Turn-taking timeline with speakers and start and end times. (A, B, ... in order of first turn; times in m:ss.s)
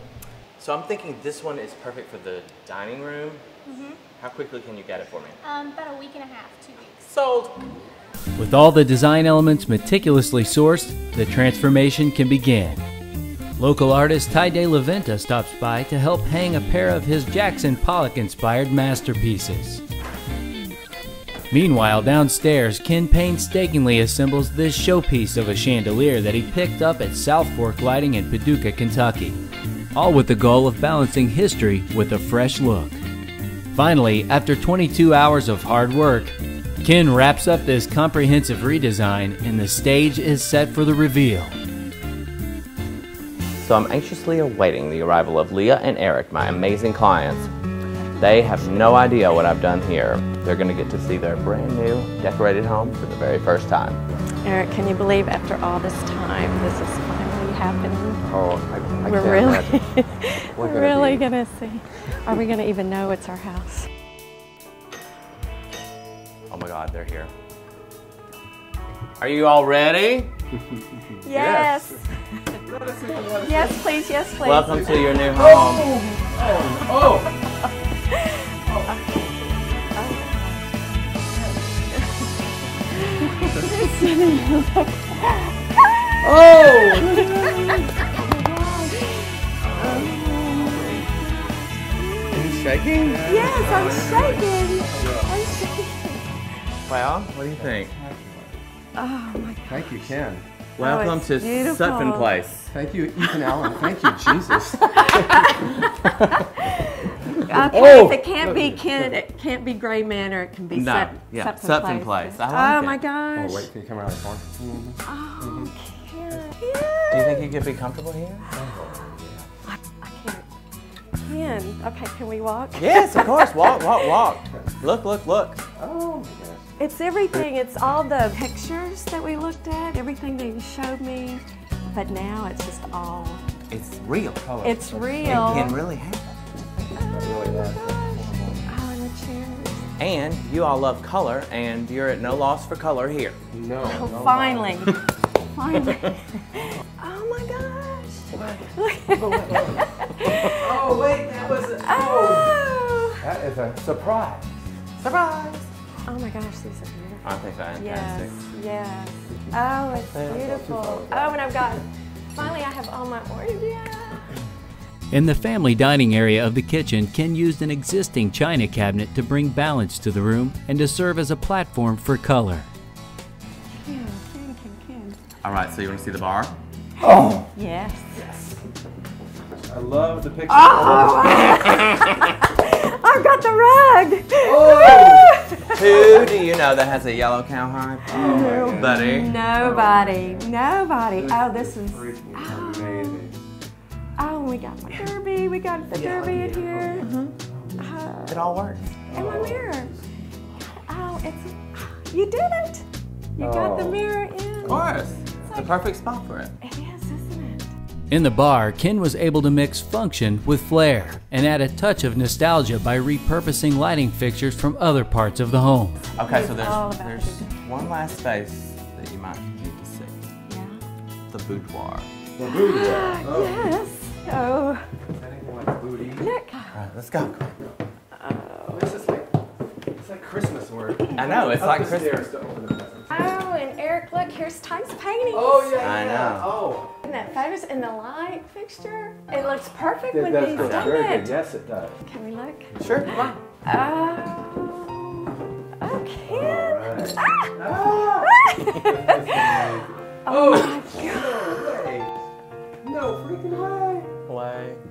0:00.6-0:03.4 A
0:03.7-0:04.0 B
0:04.1-0:05.4 A
0:05.4-0:07.1 B
0:07.1-0:07.6 A
0:08.4-0:12.8 C
0:13.6-0:19.8 C
0:21.5-0:29.4 C
0:30.0-0:33.0 C
0:33.7-0:41.6 C
0:43.6-0:47.5 A
0:48.2-0:54.0 A
0:48.2-0:49.2 D
0:54.4-0:58.2 D
0:58.2-0:59.9 E
0:59.0-1:03.9 D
1:00.4-1:01.3 E
1:06.5-1:07.3 A
1:09.2-1:10.3 A
1:11.2-1:12.1 D
1:11.2-1:12.0 E
1:12.6-1:13.9 E
1:13.4-1:15.6 D
1:14.4-1:15.9 A
1:15.4-1:17.3 E
1:18.1-1:21.0 D
1:18.7-1:18.9 E
1:21.9-1:22.3 D
1:23.0-1:25.6 D
1:26.2-1:29.0 E
1:26.9-1:27.8 D
1:29.0-1:36.4 D
1:29.6-1:31.1 E
1:32.3-1:35.2 A
1:32.4-1:35.4 E
1:36.9-1:37.9 A
1:37.5-1:38.6 E
1:39.0-1:40.1 D
1:39.7-1:40.4 E
1:40.8-1:42.4 D
1:40.8-1:42.7 A
1:42.7-1:45.5 E
1:43.6-1:53.7 D
1:47.2-1:49.2 E
1:50.7-1:53.0 A
1:53.4-1:55.7 E
1:55.0-1:57.6 D
1:57.1-1:58.5 A
1:58.6-1:59.5 E
2:00.0-2:00.5 D
2:01.2-2:03.8 D
2:02.8-2:05.6 A
2:05.8-2:06.7 E
2:06.8-2:13.4 D
2:13.7-2:16.3 A
2:14.6-2:15.8 D
2:14.8-2:15.7 E
2:16.9-2:19.9 D
2:17.0-2:18.6 E
2:20.0-2:23.4 A
2:23.5-2:24.9 E
2:23.8-2:31.0 D
2:28.3-2:29.8 E
2:30.4-2:32.6 E
2:31.6-2:33.2 D
2:33.2-2:34.5 E
2:35.0-2:35.7 A
2:36.0-2:44.3 D
2:37.2-2:38.4 A
2:40.1-2:40.4 A
2:40.2-2:41.7 E
2:45.1-2:52.7 C
2:53.7-2:55.2 D
2:55.4-2:56.6 A
2:57.0-2:57.5 E
2:57.0-2:58.2 D
2:58.2-2:58.6 E
2:59.6-3:01.5 E
3:00.5-3:06.5 D
3:04.4-3:06.4 E
3:05.7-3:09.4 A
3:08.1-3:10.5 E
3:08.1-3:13.3 D
3:11.1-3:13.4 E
3:14.2-3:20.0 D
3:15.9-3:18.0 E
3:16.0-3:16.6 A
3:18.3-3:18.9 A
3:19.1-3:20.0 E
3:20.6-3:22.8 D
3:23.4-3:25.8 D
3:23.4-3:24.0 E
3:24.6-3:25.4 E
3:24.6-3:26.5 A
3:26.6-3:27.7 D
3:28.1-3:36.0 C
3:36.2-3:40.2 A
3:36.2-3:37.6 D
3:40.5-3:40.8 D
3:41.3-3:42.1 A
3:42.4-3:43.8 E
3:42.4-3:44.8 D
3:45.1-3:46.3 E
3:46.2-3:46.8 D
3:46.7-3:47.6 A
3:48.2-3:49.0 D
3:48.7-3:49.3 E
3:50.0-3:53.2 E
3:51.2-3:52.3 A
3:53.1-3:56.0 D
3:55.3-3:57.1 E
3:55.8-3:56.6 A
3:57.0-4:01.4 D
4:00.1-4:02.0 E
4:00.6-4:01.0 A
4:02.1-4:05.2 D
4:02.8-4:03.1 A
4:03.0-4:03.3 E
4:05.8-4:07.0 D
4:06.3-4:12.2 E
4:08.0-4:11.6 D
4:12.8-4:14.1 E
4:14.3-4:14.8 A